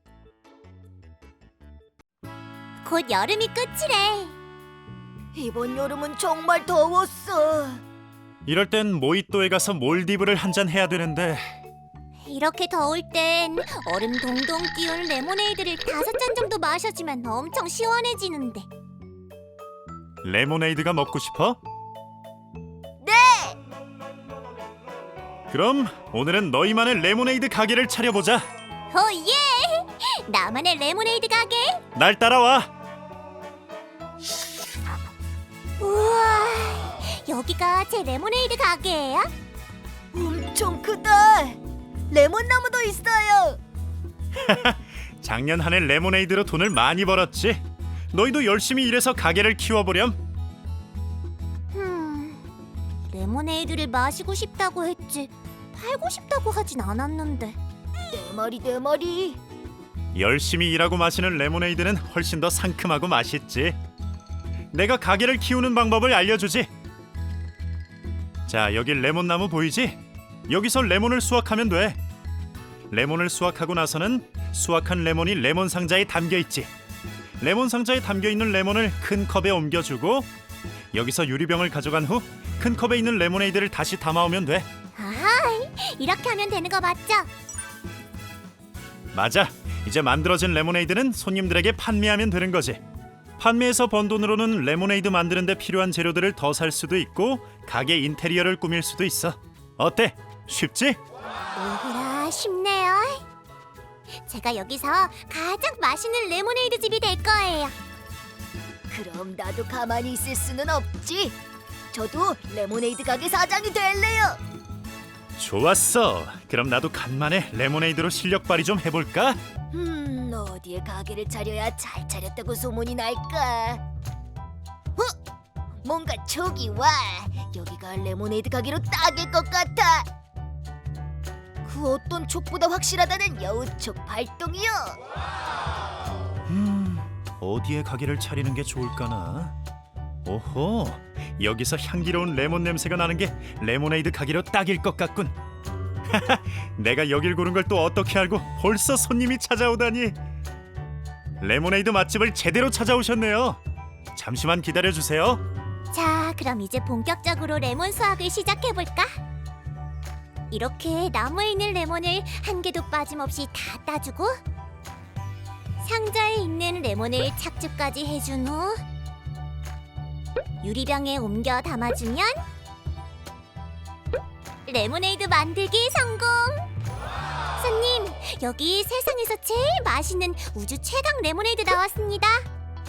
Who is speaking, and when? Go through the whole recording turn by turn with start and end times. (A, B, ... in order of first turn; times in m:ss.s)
0:02.8-0:04.3 A
0:05.4-0:07.8 B
0:08.4-0:11.4 C
0:12.2-0:18.7 A
0:20.2-0:21.6 C
0:23.0-0:23.6 B
0:25.5-0:28.4 C
0:28.9-0:31.8 A
0:32.0-0:32.7 C
0:35.8-0:39.3 A
0:40.1-0:43.6 B
0:44.4-0:50.2 C
0:51.7-0:52.5 A
0:53.1-0:57.6 A
0:58.1-0:59.4 B
1:00.1-1:03.8 C
1:04.7-1:06.7 C
1:08.5-1:12.0 C
1:12.9-1:16.7 C
1:17.4-1:20.3 C
1:20.9-1:24.7 C
1:25.0-1:27.3 A
1:29.1-1:32.8 C
1:33.4-1:41.0 C
1:41.5-1:43.2 A
1:44.2-1:47.8 A
1:48.9-1:51.4 B
1:51.9-1:54.4 B
1:55.4-1:59.4 C
1:59.7-2:03.8 B
2:05.8-2:10.1 B
2:11.6-2:15.0 B
2:16.5-2:19.6 C
2:20.2-2:25.3 C
2:26.1-2:30.2 C
2:31.4-2:33.6 C
2:34.2-2:35.4 C
2:35.9-2:39.1 A
2:40.5-2:44.4 A
2:45.8-2:48.8 A
2:50.6-2:52.4 A
2:54.7-2:56.7 A
2:57.6-3:02.5 A